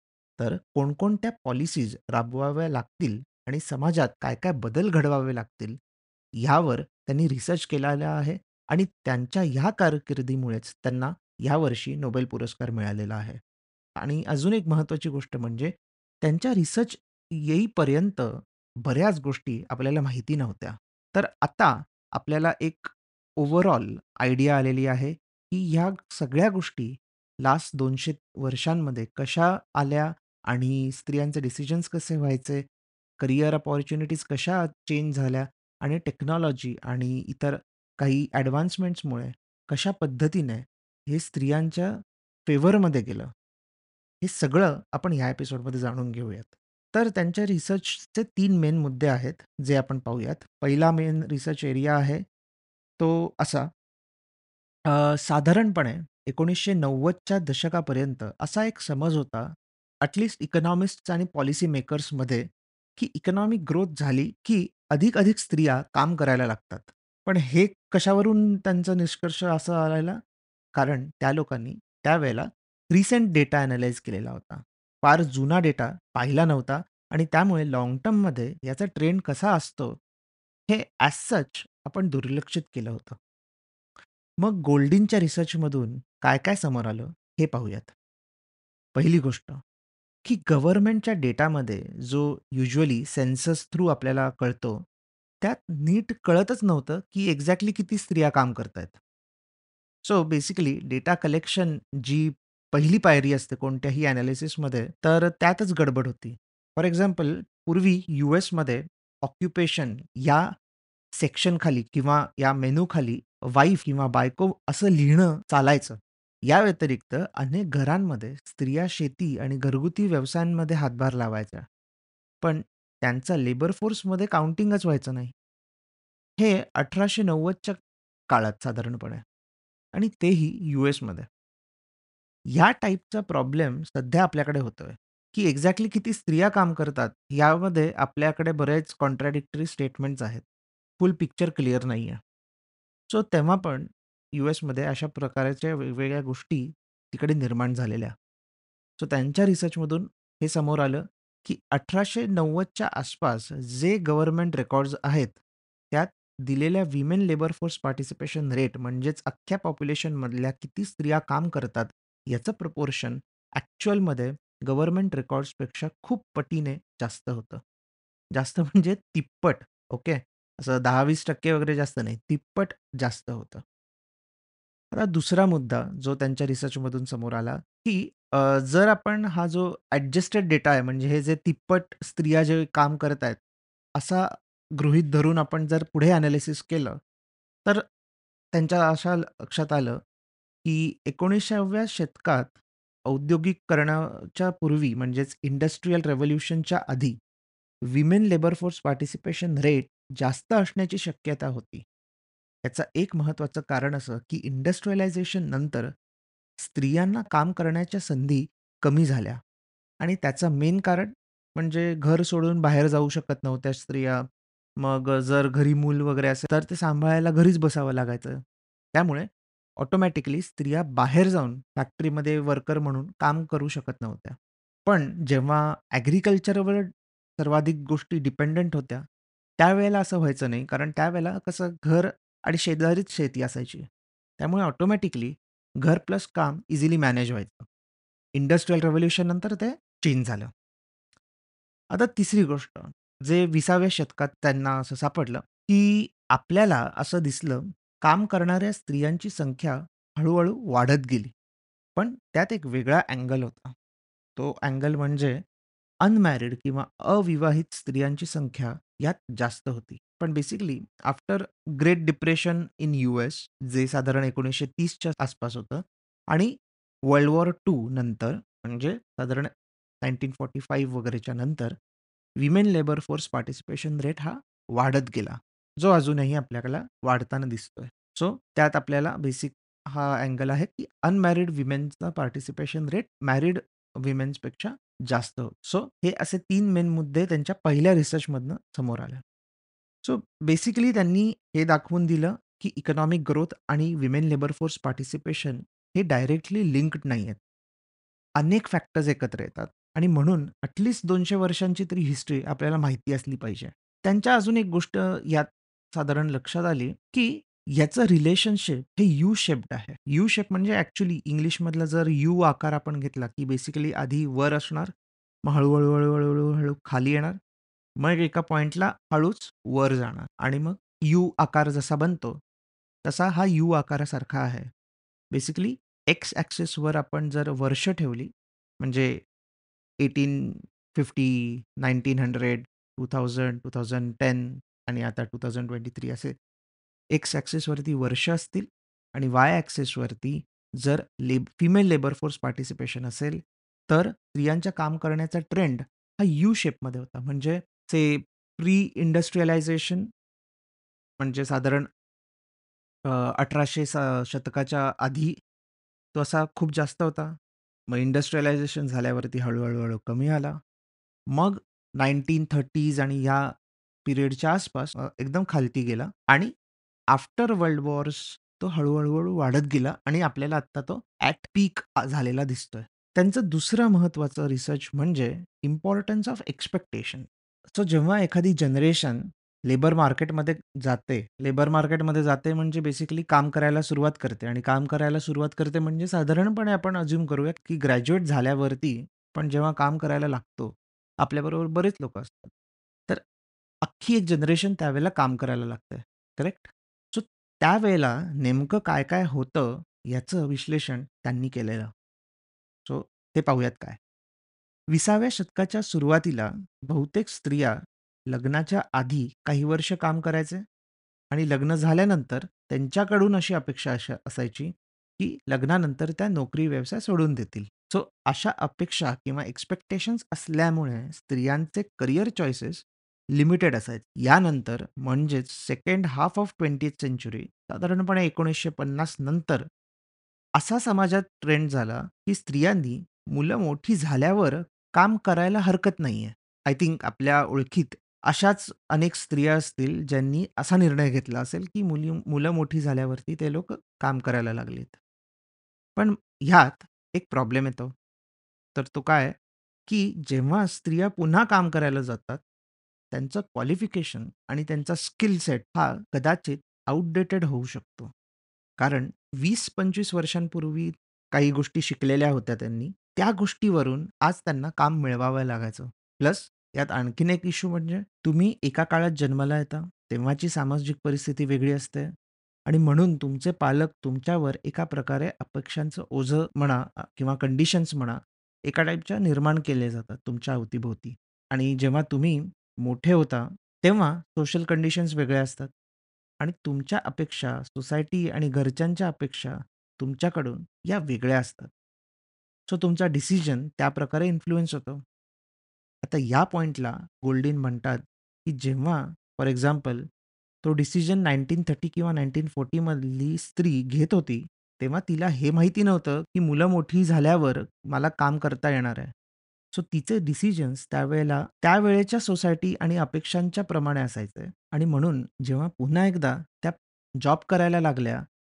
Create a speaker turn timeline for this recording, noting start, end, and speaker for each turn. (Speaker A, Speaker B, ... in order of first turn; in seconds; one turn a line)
Speaker A: 0.4-5.8
Speaker A: 6.4-13.4
Speaker A: 14.0-32.6
Speaker A: 33.2-43.3
Speaker A: 44.2-52.2
Speaker A: 53.0-53.7
Speaker A: 54.9-70.2
Speaker A: 70.7-80.0
Speaker A: 80.7-83.2
Speaker A: 84.4-87.9
Speaker A: 88.9-89.6
Speaker A: 90.2-94.8
Speaker A: 95.4-99.0
Speaker A: 100.0-110.5
Speaker A: 111.1-121.6
Speaker A: 122.4-125.3
Speaker A: 126.4-127.8
Speaker A: 128.3-129.2
Speaker A: 129.9-131.3
Speaker A: 132.5-140.4
Speaker A: 141.0-142.2
Speaker A: 143.1-148.1
Speaker A: 149.0-155.4
Speaker A: 155.9-167.6
Speaker A: 168.3-173.6
Speaker A: 174.9-183.4
Speaker A: 183.9-187.0
Speaker A: 188.5-190.0
Speaker A: 190.6-197.2
Speaker A: 197.9-201.8
Speaker A: 202.6-205.9
Speaker A: 206.6-209.4
Speaker A: 210.0-214.3
Speaker A: 214.8-218.4
Speaker A: 218.9-229.0
Speaker A: 229.6-233.9
Speaker A: 234.4-237.7
Speaker A: 238.3-240.5
Speaker A: 241.9-251.3
Speaker A: 251.9-253.7
Speaker A: 254.4-255.4
Speaker A: 256.0-266.5
Speaker A: 267.1-269.5
Speaker A: 270.0-271.8
Speaker A: 272.4-289.2
Speaker A: 290.0-297.4
Speaker A: 298.4-314.9
Speaker A: 315.4-317.4
Speaker A: 318.0-322.4
Speaker A: 323.0-324.7
Speaker A: 325.3-329.2
Speaker A: 330.0-336.4
Speaker A: 337.1-350.1
Speaker A: 351.2-351.9
Speaker A: 353.1-355.4
Speaker A: 356.1-357.3
Speaker A: 357.9-360.6
Speaker A: 361.3-363.5
Speaker A: 364.0-366.5
Speaker A: 367.1-392.5
Speaker A: 393.8-401.9
Speaker A: 402.9-404.0
Speaker A: 404.9-410.6
Speaker A: 411.3-429.7
Speaker A: 430.6-445.0
Speaker A: 445.9-447.9
Speaker A: 448.7-449.3
Speaker A: 449.9-452.4
Speaker A: 453.1-458.1
Speaker A: 458.8-472.1
Speaker A: 472.7-485.7
Speaker A: 486.4-491.7
Speaker A: 492.7-495.0
Speaker A: 496.0-500.1
Speaker A: 500.6-509.1
Speaker A: 509.7-518.2